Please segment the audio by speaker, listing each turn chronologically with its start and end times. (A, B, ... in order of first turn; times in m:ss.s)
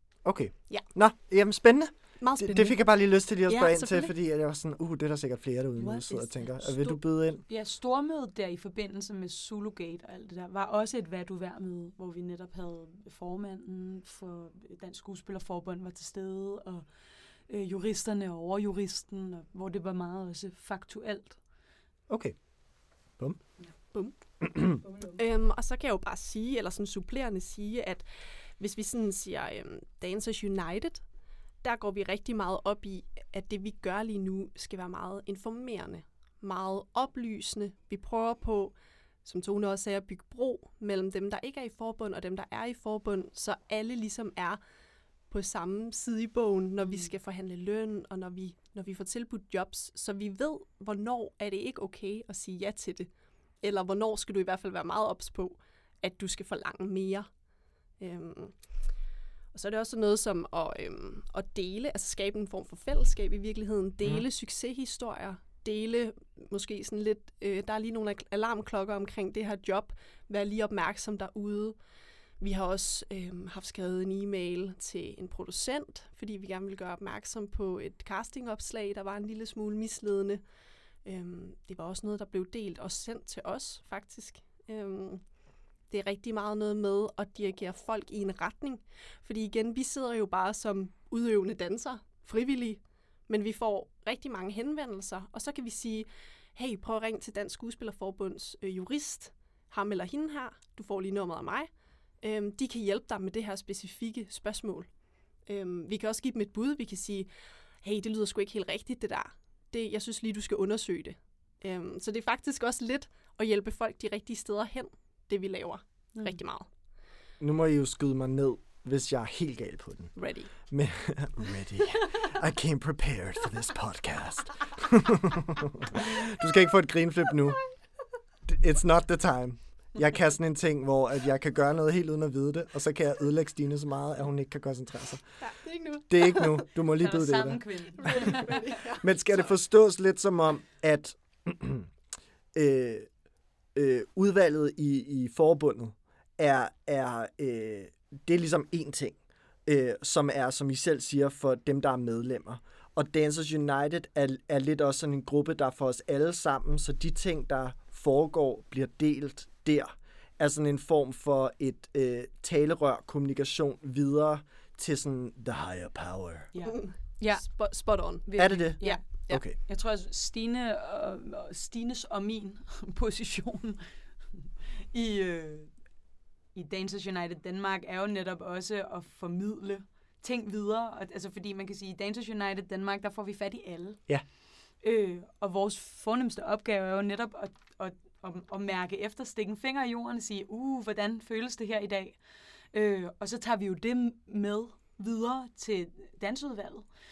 0:00.2-0:07.4 A
0:02.2-0:04.1 B
0:05.8-0:21.4 C
0:22.1-0:22.4 A
0:23.9-0:31.0 B
0:24.8-0:25.2 C
0:31.6-0:44.6 B
0:45.3-0:53.1 B
0:46.8-0:47.1 C
0:53.6-0:57.3 B
0:58.0-0:58.6 B
0:59.5-1:11.8 B
1:12.4-1:20.4 B
1:21.0-1:25.2 B
1:25.9-1:41.7 B
1:42.2-1:44.9 B
1:45.5-1:47.3 B
1:47.8-1:56.7 B
1:57.4-2:07.6 A
2:00.2-2:00.5 B
2:08.5-2:15.4 A
2:15.4-2:16.7 B
2:16.1-2:21.9 A
2:17.0-2:18.6 C
2:18.0-2:19.1 B
2:22.5-2:23.1 A
2:23.8-2:46.5 A
2:46.5-2:47.5 C
2:46.6-2:49.4 B
2:48.2-2:55.8 C
2:48.4-2:49.6 A
2:56.5-3:04.1 C
3:04.8-3:16.9 C